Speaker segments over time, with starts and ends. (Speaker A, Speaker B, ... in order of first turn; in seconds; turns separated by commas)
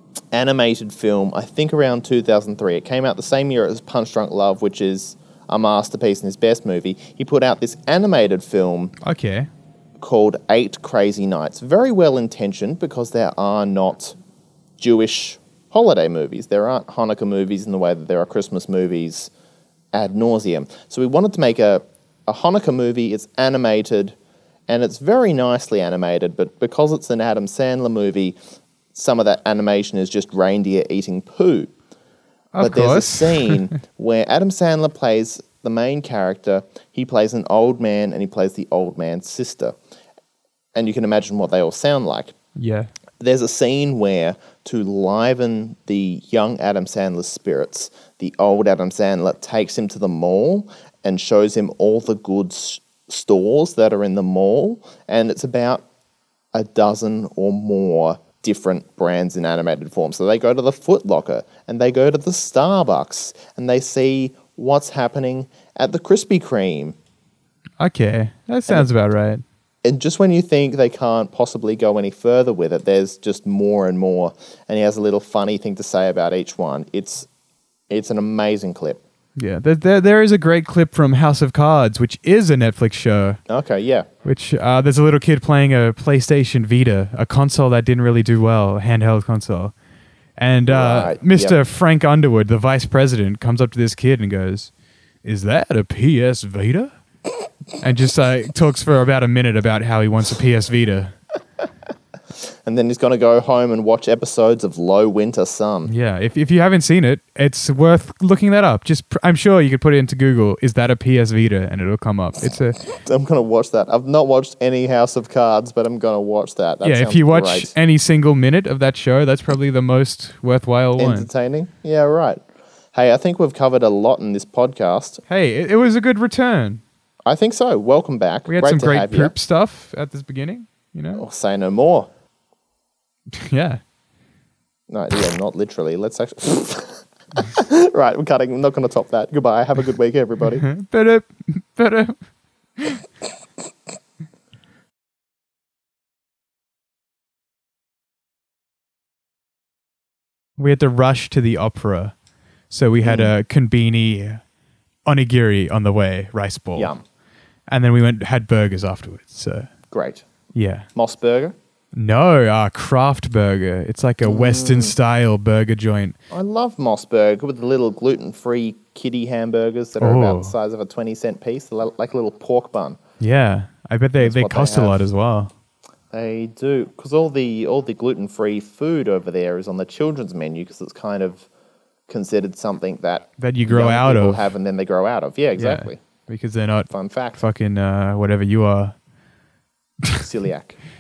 Speaker A: 0.3-8.9, Speaker B: 9.0-9.5, Speaker A: 10.0-14.2, Speaker A: 14.8-19.3, Speaker A: 19.9-24.2, Speaker A: 24.7-28.4, Speaker A: 28.9-31.7, Speaker B: 32.5-33.6, Speaker A: 32.6-39.8, Speaker A: 40.8-42.3, Speaker B: 42.6-42.9, Speaker A: 43.2-55.9, Speaker A: 56.5-67.0, Speaker B: 67.8-69.4, Speaker A: 69.8-77.3, Speaker A: 77.9-79.0, Speaker B: 79.4-83.4, Speaker A: 83.5-84.1, Speaker B: 84.2-89.7, Speaker B: 90.4-94.7, Speaker A: 90.7-91.6, Speaker B: 95.2-96.9, Speaker B: 97.8-101.1, Speaker A: 102.7-105.9, Speaker B: 105.9-112.8, Speaker A: 113.0-117.7, Speaker B: 116.8-121.3, Speaker A: 121.0-122.4, Speaker A: 122.9-125.2, Speaker B: 125.3-126.8, Speaker A: 127.3-129.3, Speaker B: 128.5-131.2, Speaker A: 131.2-132.1, Speaker B: 133.3-133.8, Speaker A: 134.9-140.7, Speaker B: 140.6-142.2, Speaker B: 142.8-143.0, Speaker B: 150.6-152.1, Speaker B: 152.7-154.4, Speaker A: 153.0-153.3, Speaker B: 155.1-156.9, Speaker A: 156.8-157.0, Speaker B: 157.7-159.7, Speaker A: 159.9-160.2, Speaker B: 160.5-160.9, Speaker A: 160.9-161.6, Speaker B: 161.9-166.2, Speaker A: 164.2-164.9, Speaker A: 166.3-173.0, Speaker B: 170.0-170.5, Speaker B: 173.2-175.5, Speaker A: 174.2-175.1, Speaker A: 176.1-181.5, Speaker A: 182.1-186.0, Speaker B: 183.4-184.5, Speaker B: 185.6-188.9, Speaker A: 186.9-187.4, Speaker A: 190.2-190.8